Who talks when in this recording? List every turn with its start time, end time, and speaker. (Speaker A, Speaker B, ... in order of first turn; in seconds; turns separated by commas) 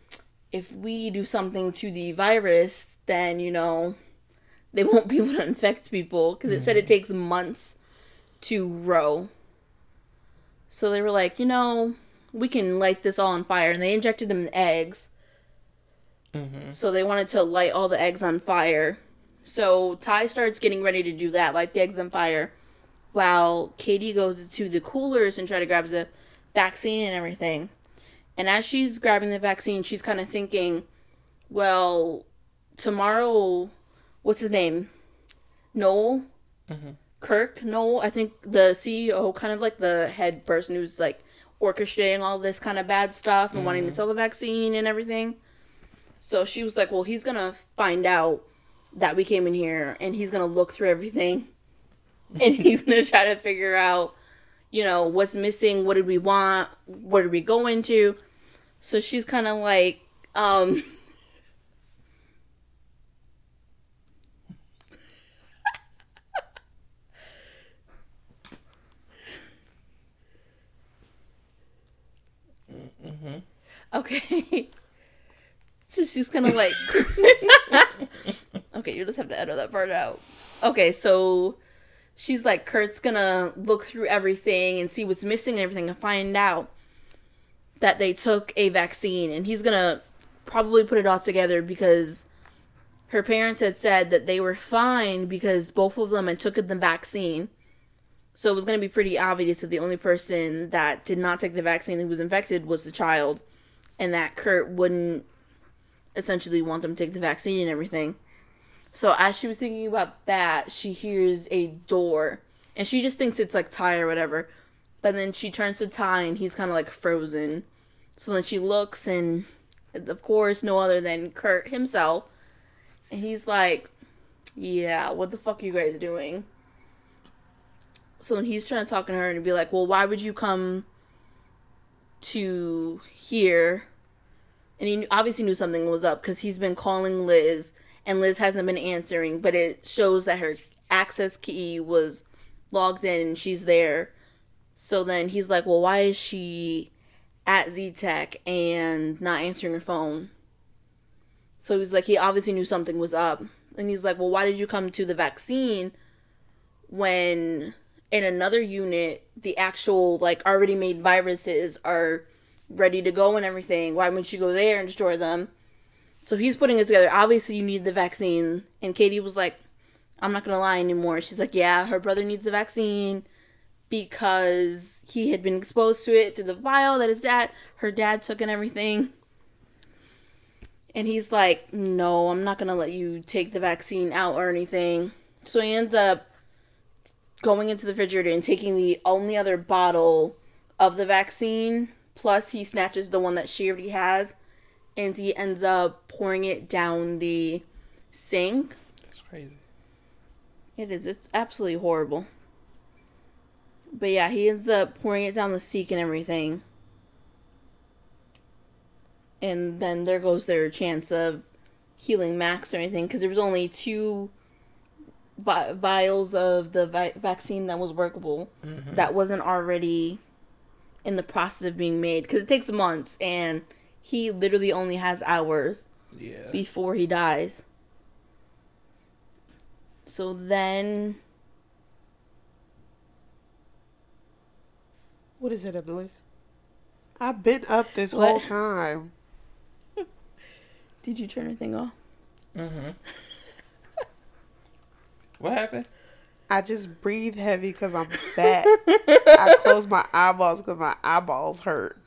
Speaker A: 0.5-4.0, Speaker A: 4.7-7.8, Speaker B: 6.5-6.9, Speaker A: 8.4-9.3, Speaker A: 10.7-15.1, Speaker B: 16.3-16.8, Speaker A: 16.7-22.5, Speaker A: 23.1-27.7, Speaker A: 28.4-30.9, Speaker A: 31.5-32.3, Speaker A: 32.8-33.7, Speaker A: 34.2-34.9, Speaker A: 35.7-36.3, Speaker B: 36.7-37.0, Speaker A: 37.2-45.4, Speaker B: 43.5-44.0, Speaker A: 46.2-51.5, Speaker A: 52.4-54.1, Speaker A: 54.7-58.2, Speaker A: 58.8-61.0, Speaker B: 72.7-73.4, Speaker A: 73.9-74.7, Speaker A: 75.9-78.0, Speaker A: 78.7-81.6, Speaker A: 82.2-86.7, Speaker A: 87.8-92.2, Speaker A: 93.1-97.5, Speaker A: 98.3-103.4, Speaker A: 104.0-105.3, Speaker A: 106.2-108.2, Speaker A: 108.9-114.5, Speaker A: 115.0-117.7, Speaker A: 118.2-122.3, Speaker A: 123.1-123.9, Speaker A: 124.6-126.5, Speaker A: 128.2-130.9, Speaker A: 132.2-133.9, Speaker A: 134.8-144.1, Speaker A: 144.8-146.9, Speaker A: 147.5-150.3, Speaker A: 151.6-155.9, Speaker A: 156.9-165.5, Speaker A: 166.2-169.6, Speaker A: 170.2-173.3, Speaker A: 173.9-179.1, Speaker A: 180.9-186.2, Speaker A: 187.4-194.3, Speaker A: 195.0-198.8, Speaker B: 199.1-199.6, Speaker A: 200.8-202.3, Speaker A: 203.9-206.6, Speaker A: 209.4-211.4, Speaker A: 212.0-214.3, Speaker A: 215.4-220.2, Speaker B: 218.6-219.1, Speaker A: 221.1-225.9, Speaker B: 226.1-226.6, Speaker A: 226.5-227.6, Speaker A: 230.1-231.2, Speaker C: 235.4-236.2, Speaker C: 237.2-239.1, Speaker A: 238.1-238.5, Speaker A: 241.0-241.9, Speaker B: 242.6-243.0, Speaker B: 245.4-245.9, Speaker C: 246.5-248.8, Speaker A: 248.2-249.7, Speaker C: 249.3-252.0